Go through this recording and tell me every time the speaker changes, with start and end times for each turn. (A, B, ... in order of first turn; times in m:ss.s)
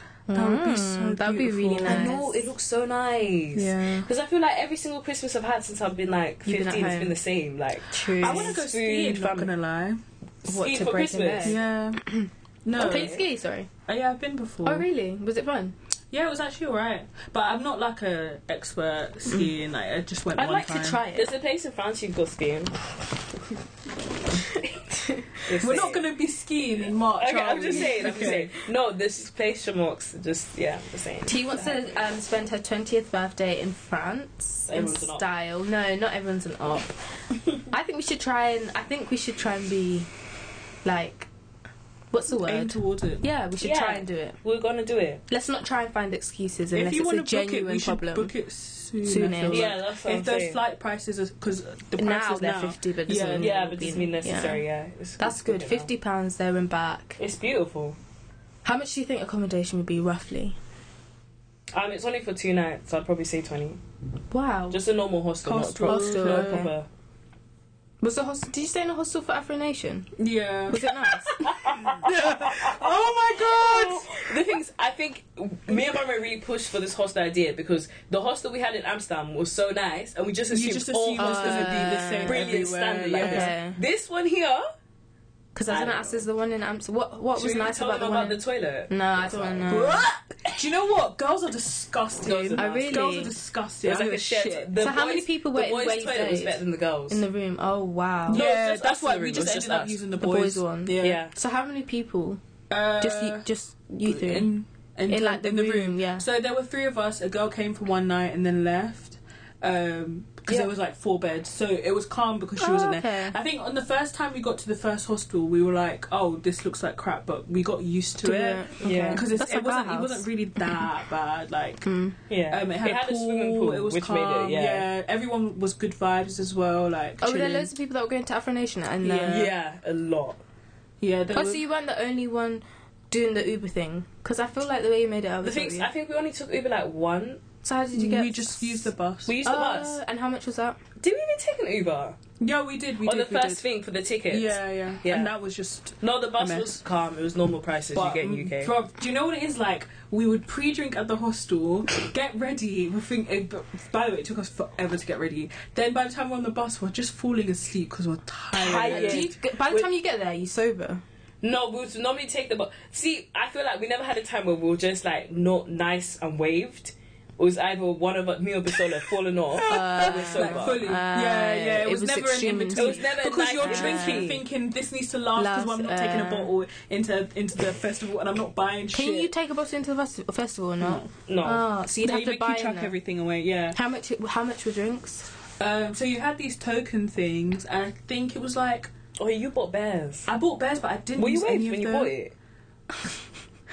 0:00.3-0:02.4 A
0:00.3-0:02.2 B
0:01.8-0:09.5 C
0:03.5-0:04.0 B
0:06.4-0:07.2 A
0:07.8-0:08.6 A
0:08.2-0:10.0 B
0:10.4-0:13.7 A
0:10.4-0:11.6 C
0:11.4-0:12.0 B
0:12.6-0:13.2 B
0:12.8-0:13.2 C
0:13.9-0:14.8 B
0:14.6-0:15.8 A
0:16.1-0:21.0 B
0:20.3-0:21.3 A
0:21.1-0:22.8 C
0:24.9-0:25.3 A
0:25.4-0:26.0 C
0:25.6-0:28.5 B
0:27.2-0:31.8 C
0:31.2-0:37.0 A
0:34.7-0:35.2 C
0:37.7-0:40.1 A
0:40.8-0:41.3 A
0:42.1-0:44.4 A
0:42.4-0:43.2 B
0:43.6-0:45.2 C
0:45.3-0:48.3 A
0:46.7-0:53.6 B
0:49.0-0:49.7 A
0:49.5-0:50.6 C
0:52.0-0:54.6 A
0:53.4-0:55.9 C
0:55.2-0:57.2 A
0:57.2-0:58.0 C
0:58.6-1:00.6 A
1:01.7-1:03.8 C
1:04.3-1:04.8 A
1:04.7-1:06.9 C
1:05.4-1:06.6 B
1:05.9-1:06.7 A
1:08.0-1:10.1 A
1:10.2-1:10.8 B
1:10.7-1:11.3 A
1:11.4-1:24.6 C
1:12.0-1:14.3 B
1:20.5-1:23.5 B
1:21.2-1:22.4 A
1:23.2-1:23.8 A
1:25.5-1:30.0 A
1:25.7-1:26.2 C
1:27.4-1:30.6 C
1:29.7-1:34.7 B
1:32.2-1:33.1 C
1:32.6-1:33.3 A
1:33.8-1:37.2 C
1:34.8-1:38.4 A
1:38.3-1:41.2 B
1:38.3-1:40.0 C
1:40.2-1:42.4 A
1:41.0-1:41.3 C
1:42.7-1:43.5 B
1:43.0-1:44.5 A
1:44.0-2:01.9 B
1:45.1-1:46.2 A
1:52.6-1:53.4 A
1:58.2-2:00.8 A
1:58.8-1:59.3 C
2:01.8-2:02.2 A
2:02.3-2:04.9 C
2:02.5-2:07.7 B
2:07.2-2:09.5 A
2:09.0-2:09.5 B
2:09.2-2:10.4 C
2:11.0-2:11.6 B
2:11.3-2:15.9 A
2:15.4-2:17.4 C
2:17.6-2:18.9 A
2:17.9-2:19.3 B
2:19.2-2:20.0 C
2:19.4-2:20.8 A
2:21.0-2:22.2 C
2:22.4-2:23.6 B
2:23.0-2:25.3 C
2:24.3-2:26.8 B
2:26.0-2:28.7 C
2:27.9-2:39.3 B
2:38.5-2:39.9 C
2:38.6-2:41.0 A
2:41.4-2:50.8 C
2:49.6-2:59.3 B
2:49.6-2:54.3 A
2:52.7-2:54.4 C
2:55.4-2:56.5 A
2:58.9-3:02.9 A
3:00.8-3:01.1 B
3:01.3-3:01.6 C
3:02.0-3:03.8 B
3:03.7-3:05.3 A
3:05.6-3:08.9 B
3:09.2-3:10.3 C
3:10.3-3:12.1 B
3:11.2-3:12.3 C